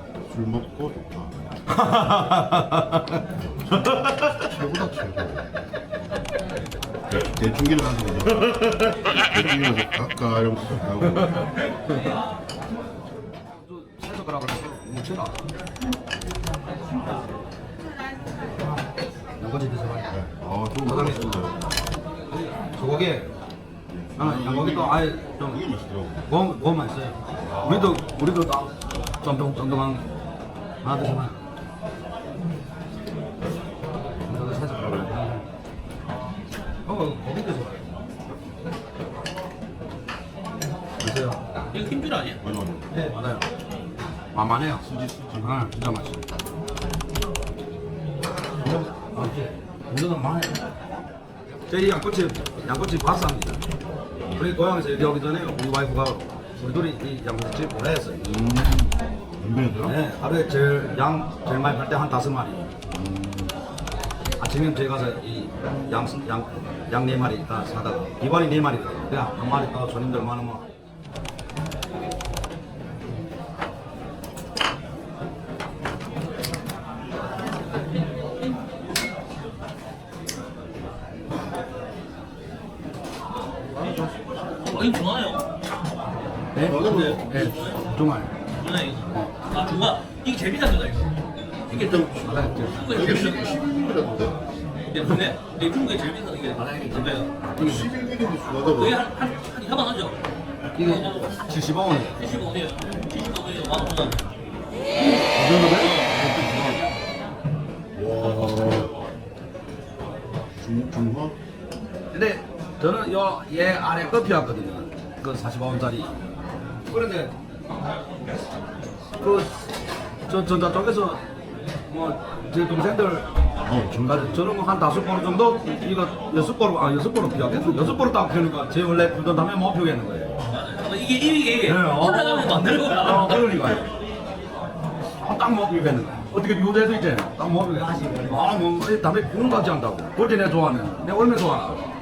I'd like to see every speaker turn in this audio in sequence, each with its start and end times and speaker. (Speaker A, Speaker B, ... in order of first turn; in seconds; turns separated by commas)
Speaker A: 0.2-1.6, Speaker B: 1.7-3.2, Speaker B: 3.8-4.1, Speaker A: 4.4-5.5, Speaker A: 7.1-11.5, Speaker B: 13.6-15.3, Speaker B: 19.4-20.2, Speaker A: 20.2-21.6, Speaker B: 20.8-21.3, Speaker B: 22.6-23.3, Speaker A: 23.9-26.3, Speaker B: 24.2-25.6, Speaker B: 26.3-30.1, Speaker B: 30.8-31.4, Speaker B: 34.2-35.5, Speaker B: 36.9-37.9, Speaker B: 41.0-41.4, Speaker C: 41.7-42.4, Speaker A: 42.4-42.9, Speaker B: 42.9-43.5, Speaker B: 44.3-46.2, Speaker A: 44.8-45.5, Speaker B: 48.6-50.6, Speaker B: 51.7-53.6, Speaker B: 54.3-58.3, Speaker A: 58.2-60.0, Speaker B: 59.8-62.7, Speaker A: 62.9-63.5, Speaker B: 64.4-70.7, Speaker C: 84.4-85.5, Speaker B: 86.5-88.4, Speaker A: 86.6-87.3, Speaker C: 86.7-87.9, Speaker C: 88.5-93.6, Speaker B: 91.8-93.3, Speaker A: 92.9-94.4, Speaker C: 94.9-97.3, Speaker B: 96.6-97.9, Speaker A: 97.6-99.0, Speaker C: 98.7-101.4, Speaker B: 100.8-102.2, Speaker C: 102.1-104.4, Speaker B: 105.3-106.8, Speaker C: 105.7-107.0, Speaker A: 108.0-108.9, Speaker B: 108.3-108.8, Speaker A: 110.6-111.4, Speaker B: 112.1-116.1, Speaker B: 116.9-117.3, Speaker B: 119.2-119.7, Speaker B: 120.3-121.2, Speaker B: 121.9-123.3, Speaker A: 123.7-124.2, Speaker B: 123.8-130.3, Speaker C: 130.4-133.6, Speaker B: 131.6-133.9, Speaker B: 135.2-141.8